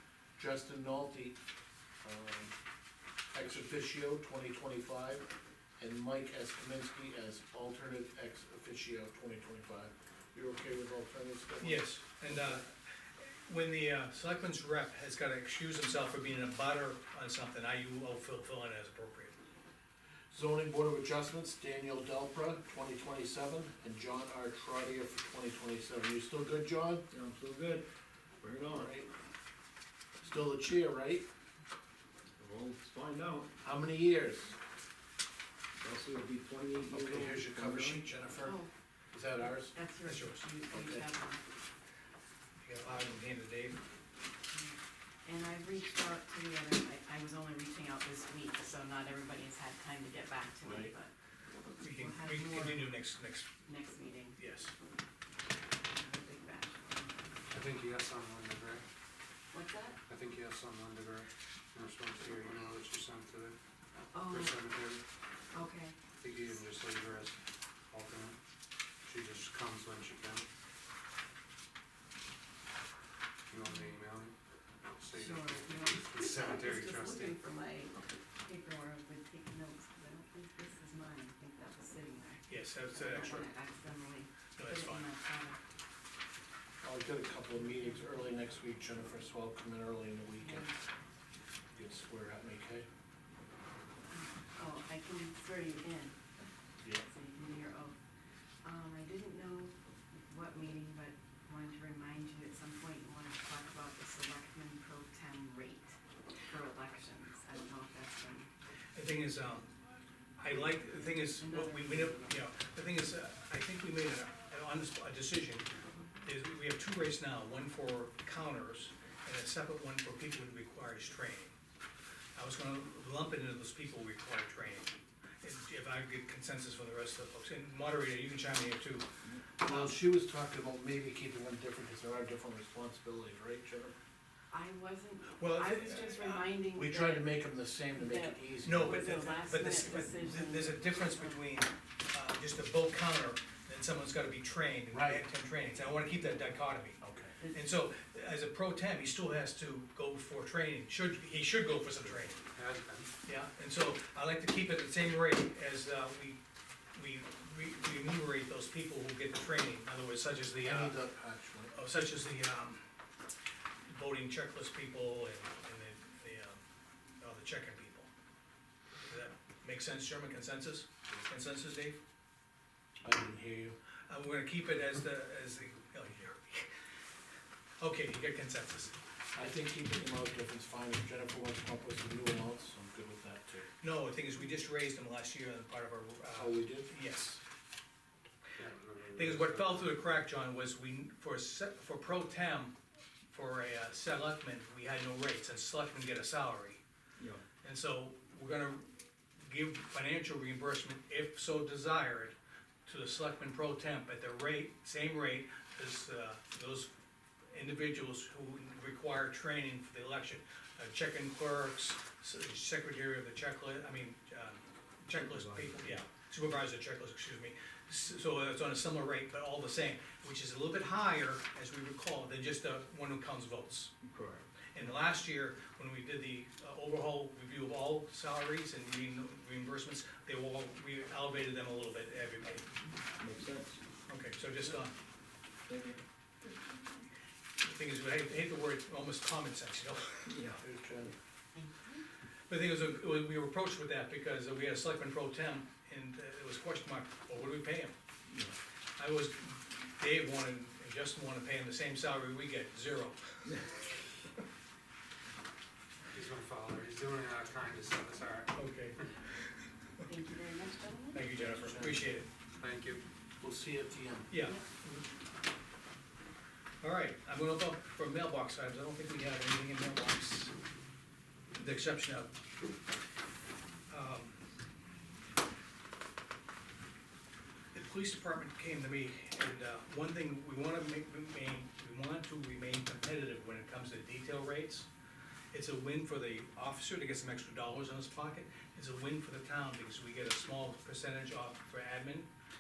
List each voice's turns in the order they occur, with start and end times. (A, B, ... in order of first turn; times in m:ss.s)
0:00.4-0:01.4 A
0:02.0-0:02.6 A
0:03.3-0:05.3 A
0:05.8-0:12.6 A
0:11.6-0:19.3 B
0:20.3-0:27.1 A
0:27.1-0:27.9 C
0:28.4-0:29.0 C
0:28.7-0:29.1 A
0:30.2-0:31.3 A
0:32.4-0:33.5 C
0:33.6-0:34.6 A
0:35.8-0:38.1 C
0:36.9-0:38.6 A
0:38.4-0:38.7 D
0:39.1-0:39.8 A
0:39.7-0:41.4 D
0:40.0-0:40.5 B
0:40.7-0:41.1 A
0:42.6-0:43.8 B
0:44.5-0:51.1 D
0:50.6-0:50.9 A
0:51.8-0:53.0 D
0:51.8-0:53.5 B
0:53.6-0:54.4 D
0:54.4-0:54.7 B
0:55.9-0:57.4 D
0:57.5-0:58.8 E
0:59.5-1:00.0 D
1:00.1-1:03.6 E
1:04.1-1:04.6 D
1:04.2-1:05.0 E
1:05.5-1:06.0 D
1:06.1-1:08.4 E
1:09.0-1:10.5 E
1:13.5-1:14.4 E
1:15.0-1:17.4 E
1:15.2-1:25.6 D
1:22.5-1:23.5 B
1:24.6-1:25.1 B
1:26.8-1:30.7 A
1:30.4-1:30.8 D
1:31.7-1:32.9 A
1:34.1-1:38.0 D
1:38.6-1:48.5 D
1:49.0-1:49.7 B
1:50.4-1:55.7 B
1:50.8-1:52.4 D
1:56.2-2:01.6 B
2:02.4-2:09.1 B
2:09.6-2:14.0 A
2:09.6-2:10.0 B
2:14.5-2:17.4 D
2:15.4-2:16.6 B
2:16.8-2:19.3 A
2:17.9-2:21.3 D
2:18.6-2:27.0 B
2:24.9-2:25.2 A
2:27.0-2:27.4 A
2:27.4-2:27.7 D
2:27.5-2:32.4 B
2:32.5-2:33.1 E
2:33.2-2:36.4 B
2:36.9-2:41.0 B
2:40.6-2:41.8 A
2:41.7-2:42.8 B
2:43.9-2:46.6 B
2:47.2-2:48.1 B
2:49.1-2:52.0 B
2:53.0-2:53.8 A
2:54.1-2:56.7 B
2:57.8-2:58.9 B
2:59.3-3:03.7 A
3:03.8-3:07.4 B
3:06.4-3:06.9 A
3:08.6-3:09.9 E
3:09.1-3:12.8 B
3:13.3-3:16.8 B
3:17.6-3:18.9 B
3:19.4-3:22.4 B
3:22.9-3:26.9 B
3:27.5-3:43.9 B
3:35.1-3:36.0 C
3:44.0-3:44.5 C
3:44.7-3:52.7 B
3:53.2-3:53.8 C
3:54.1-3:54.9 B
3:55.7-3:56.0 C
3:57.6-4:00.4 B
4:00.3-4:00.6 C
4:00.6-4:01.1 A
4:01.6-4:02.0 D
4:02.5-4:07.9 B
4:08.3-4:08.6 C
4:09.0-4:13.7 B
4:16.1-4:19.0 E
4:18.6-4:20.0 B
4:20.1-4:21.2 D
4:21.1-4:22.3 B
4:21.3-4:22.1 A
4:22.6-4:23.0 E
4:23.4-4:24.3 A
4:24.3-4:25.0 B
4:26.8-4:30.5 B
4:31.6-4:32.3 B
4:33.9-4:34.4 B
4:37.7-4:44.9 B
4:45.5-4:52.3 B